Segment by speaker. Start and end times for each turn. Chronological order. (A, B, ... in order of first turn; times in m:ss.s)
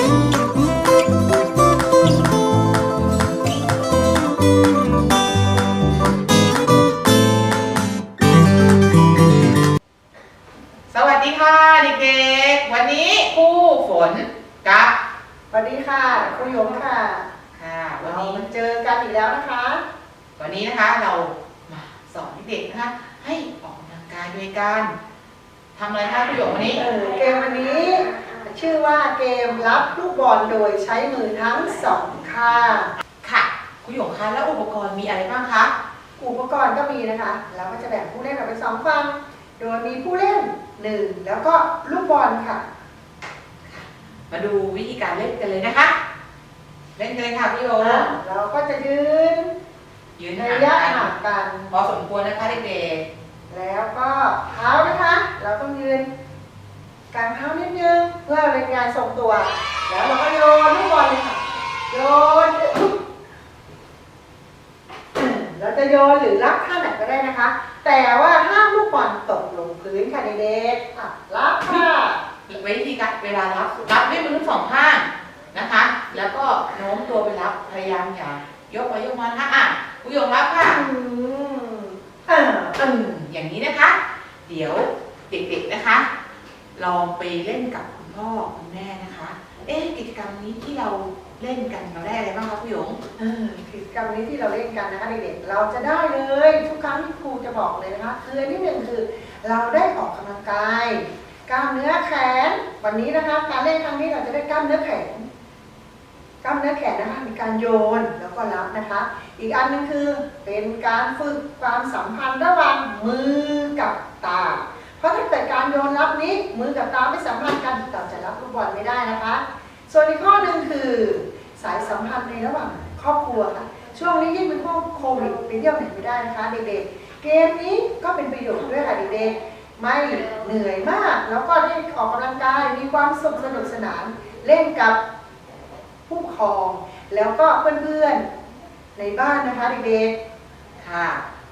0:10.9-0:14.9 A
0:15.5-0:17.2 B
0:17.5-0:18.5 A
0:18.0-0:19.8 B
0:20.4-0:24.9 A
0:25.7-0:26.8 A
0:26.8-0:32.9 B
0:33.2-0:35.7 A
0:36.2-0:42.6 B
0:43.6-0:46.0 A
0:47.0-0:48.2 A
0:47.8-0:49.5 B
0:50.2-0:51.1 A
0:50.4-0:51.7 B
0:51.7-0:53.0 A
0:53.5-0:56.1 B
0:57.1-1:03.0 B
1:05.1-1:12.2 B
1:12.5-1:20.8 A
1:20.6-1:22.8 B
1:22.8-1:26.1 A
1:26.7-1:33.0 A
1:33.2-1:45.3 B
1:46.4-2:15.0 B
2:16.1-2:18.3 B
2:19.0-2:20.2 B
2:20.8-2:21.2 A